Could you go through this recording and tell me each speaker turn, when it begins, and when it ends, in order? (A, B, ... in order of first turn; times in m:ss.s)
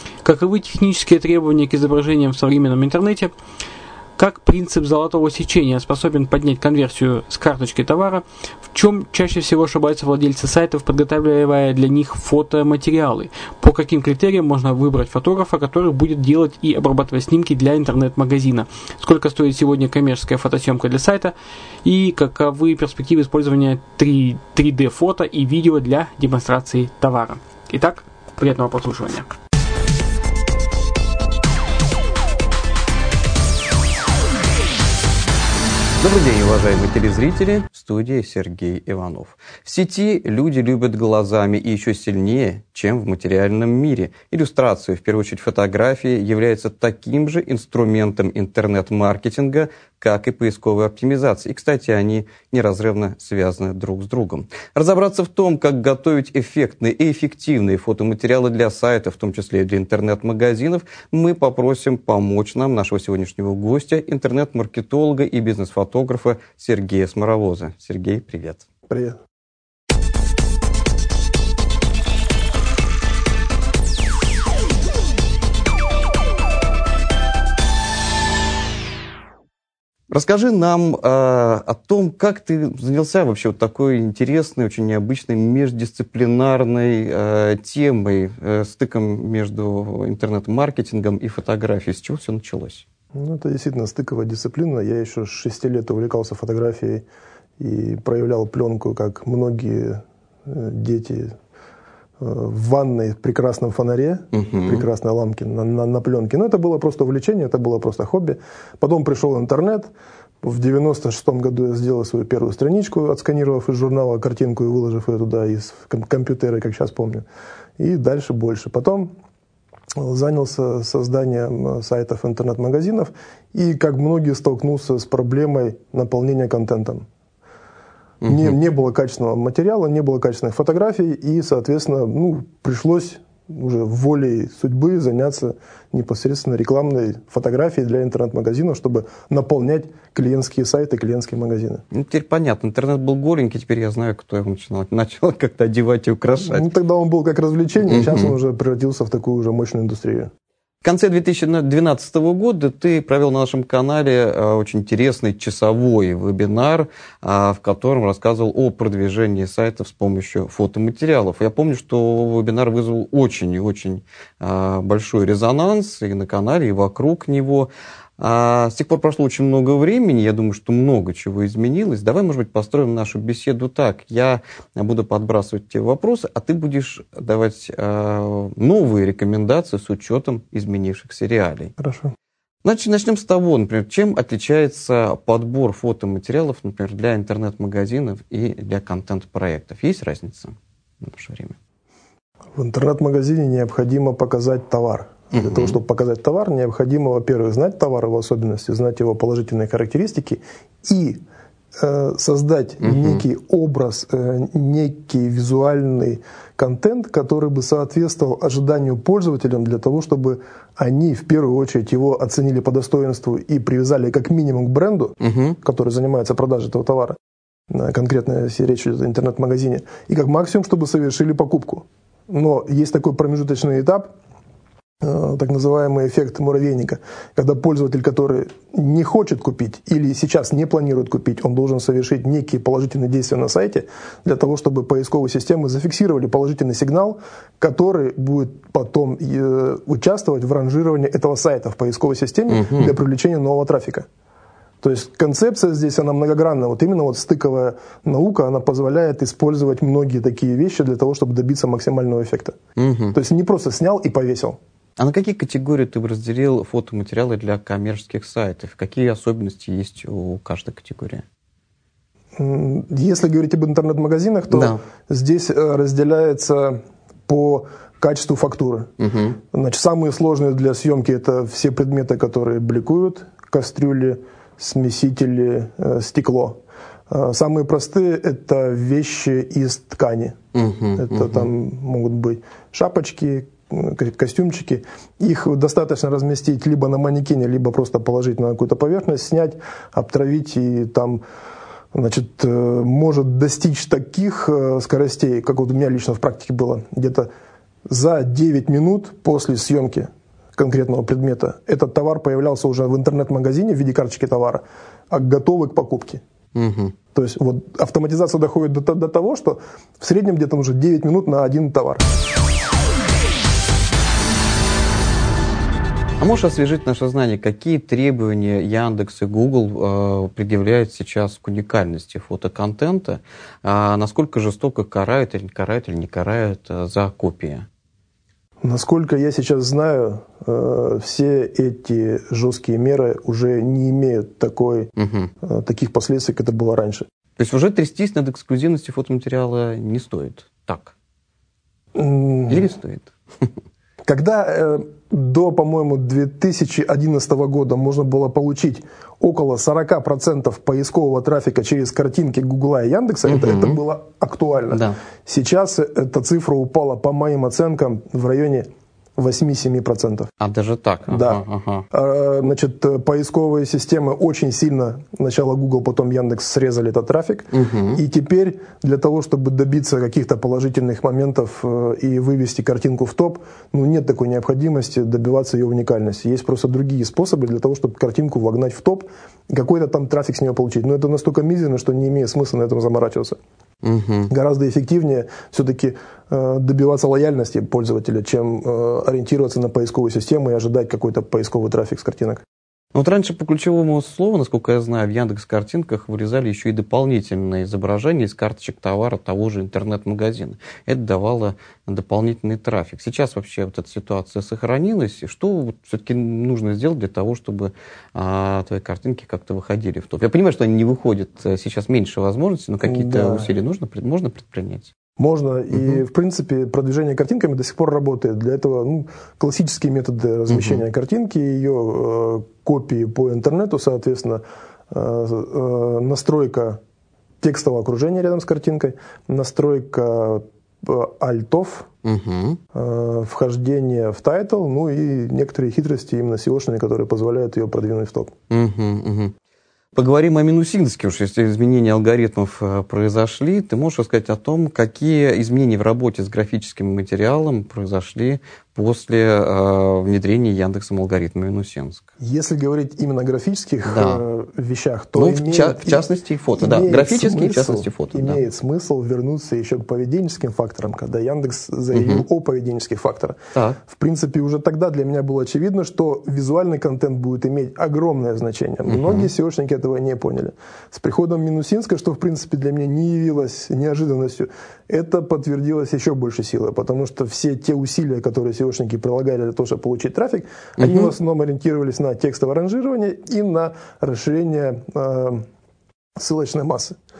0:00.2-0:03.3 A
0:04.2-0:29.3 A
0:36.0-1:08.6 B
1:08.9-1:09.2 C
1:20.1-1:32.8 B
1:33.1-1:37.0 C
1:37.6-1:41.3 C
1:42.2-1:49.9 C
1:44.3-1:44.8 B
1:50.4-1:57.2 C
1:57.8-1:59.1 C
1:59.9-2:07.0 C
2:08.2-2:08.6 B
2:08.2-2:21.8 C
2:21.9-2:26.7 B
2:26.4-2:30.3 C
2:27.9-2:28.3 B
2:30.8-3:01.7 B
3:01.8-3:02.1 C
3:02.6-3:11.6 B
3:12.6-3:21.2 C
3:15.3-3:15.8 B
3:21.8-3:37.2 C
3:22.8-3:23.2 B
3:35.2-3:35.6 B
3:37.7-3:44.1 C
3:45.0-4:04.0 C
4:02.5-4:03.0 B
4:04.8-4:12.6 C
4:12.8-4:13.2 B
4:13.1-4:14.6 C
4:15.0-4:21.2 B
4:22.4-4:28.9 C
4:24.5-4:24.8 B
4:29.0-4:29.4 B
4:29.5-4:36.6 C
4:37.1-4:40.4 C
4:40.5-4:41.5 B
4:41.0-4:51.2 C
4:51.9-4:57.3 C
4:57.9-5:06.2 C
5:06.5-5:06.9 B
5:07.1-5:12.0 C
5:16.2-5:27.7 B
5:28.6-5:34.9 C
5:35.0-5:35.3 B
5:35.4-5:37.0 C
5:37.4-5:40.9 B
5:41.9-5:42.7 C
5:42.5-5:43.5 B
5:44.0-6:00.3 C
5:53.2-5:53.8 B
5:54.7-5:55.0 B
6:00.4-6:01.8 B
6:01.1-6:23.4 C
6:07.5-6:08.0 B
6:23.8-6:24.3 B
6:24.3-6:32.4 C
6:32.9-6:54.9 B
6:52.8-6:53.5 C
6:55.2-7:06.8 C
6:55.7-6:56.0 B
7:00.5-7:00.8 B
7:07.4-7:11.9 C
7:12.0-7:12.6 B
7:12.7-7:18.3 C
7:18.5-7:19.3 B
7:20.0-7:32.1 B
7:32.2-7:36.0 C
7:33.8-7:34.2 B
7:35.1-7:38.4 B
7:36.6-8:05.4 C
7:41.9-7:42.2 B
7:48.9-7:49.3 B
8:00.8-8:01.1 B
8:06.2-8:07.0 C